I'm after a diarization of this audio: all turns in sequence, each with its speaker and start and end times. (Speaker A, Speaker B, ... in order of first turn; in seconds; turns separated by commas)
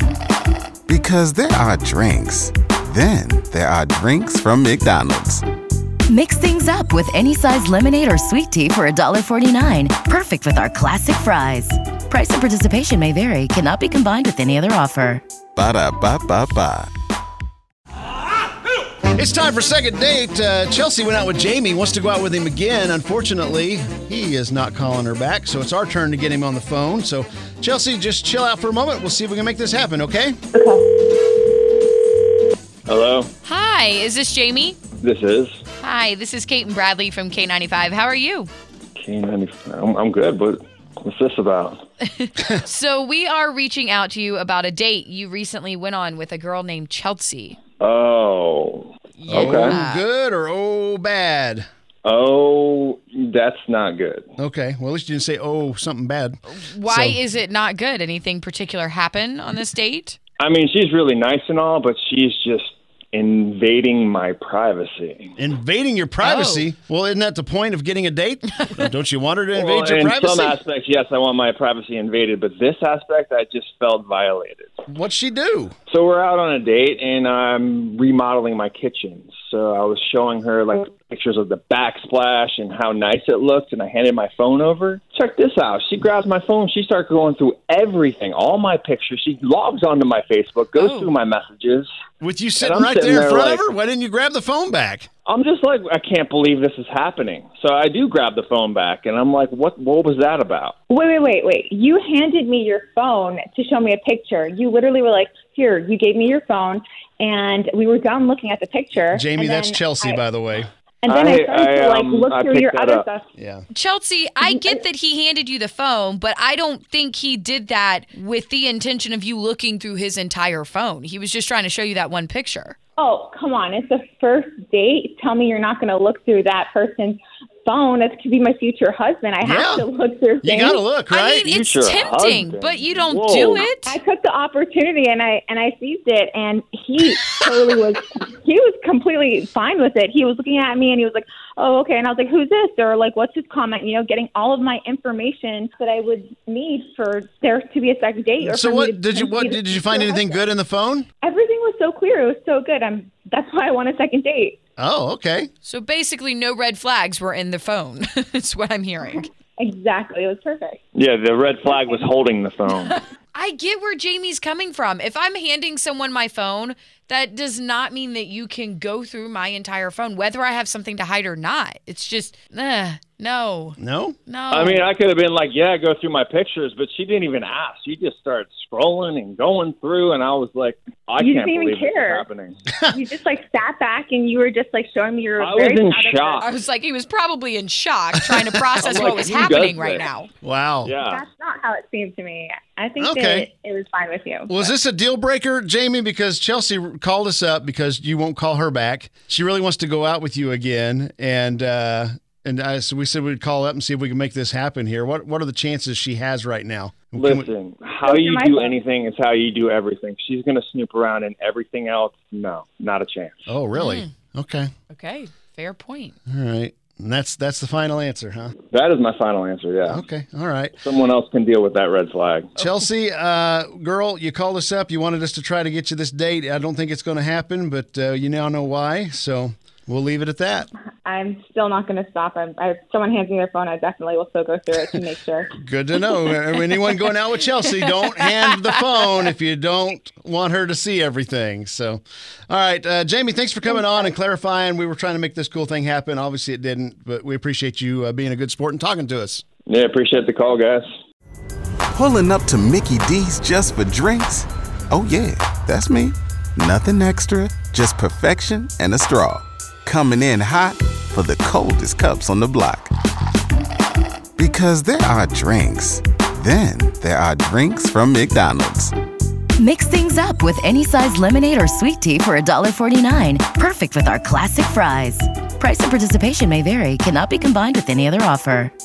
Speaker A: 0.9-5.4, Speaker B: 6.1-15.2, Speaker A: 15.6-16.9, Speaker C: 19.1-30.4, Speaker D: 30.5-30.8, Speaker E: 32.9-33.3, Speaker F: 33.4-34.8, Speaker E: 35.0-35.6, Speaker F: 35.8-38.5, Speaker E: 39.0-41.8, Speaker F: 42.0-47.6, Speaker E: 47.8-49.8, Speaker F: 49.2-50.1, Speaker C: 49.3-51.6, Speaker E: 52.0-54.3, Speaker C: 54.4-57.2, Speaker F: 56.5-60.2, Speaker E: 60.4-65.3, Speaker C: 65.4-70.6, Speaker F: 66.2-66.7, Speaker E: 69.5-74.7, Speaker C: 74.9-75.8, Speaker E: 75.9-91.9, Speaker F: 90.8-91.2, Speaker C: 92.2-95.1, Speaker E: 92.6-93.7, Speaker E: 95.3-100.8, Speaker D: 100.9-110.2, Speaker C: 109.1-110.7, Speaker D: 111.0-113.2, Speaker E: 111.1-113.1, Speaker C: 113.4-113.7, Speaker F: 113.7-122.8, Speaker D: 123.0-130.8, Speaker C: 129.4-129.9, Speaker C: 130.4-131.5, Speaker F: 131.1-134.0, Speaker E: 131.4-133.7, Speaker D: 133.8-150.4, Speaker C: 148.4-151.1, Speaker D: 151.2-154.6, Speaker C: 154.8-155.5, Speaker F: 155.7-159.3, Speaker D: 159.6-160.8, Speaker E: 160.9-163.0, Speaker F: 162.7-174.9, Speaker C: 173.8-174.2, Speaker E: 174.5-182.6, Speaker D: 181.2-182.2, Speaker C: 182.7-182.9, Speaker D: 182.9-186.4, Speaker E: 185.4-186.5, Speaker F: 186.4-190.3, Speaker C: 188.3-188.7, Speaker E: 188.8-190.1, Speaker C: 190.4-190.9, Speaker E: 190.8-191.2, Speaker D: 191.1-194.7, Speaker C: 193.0-193.5, Speaker C: 194.5-207.5, Speaker E: 207.2-213.5, Speaker D: 208.0-208.8, Speaker C: 213.5-214.7, Speaker F: 213.7-214.1, Speaker F: 214.9-216.2, Speaker C: 216.3-218.6, Speaker E: 218.7-220.1, Speaker C: 219.9-220.8, Speaker E: 220.8-222.6, Speaker C: 222.6-230.7, Speaker D: 231.0-235.6, Speaker C: 235.6-249.4, Speaker F: 237.9-238.7, Speaker D: 243.7-244.1, Speaker E: 249.7-250.9, Speaker A: 251.9-262.9, Speaker A: 264.4-268.9, Speaker B: 269.6-278.7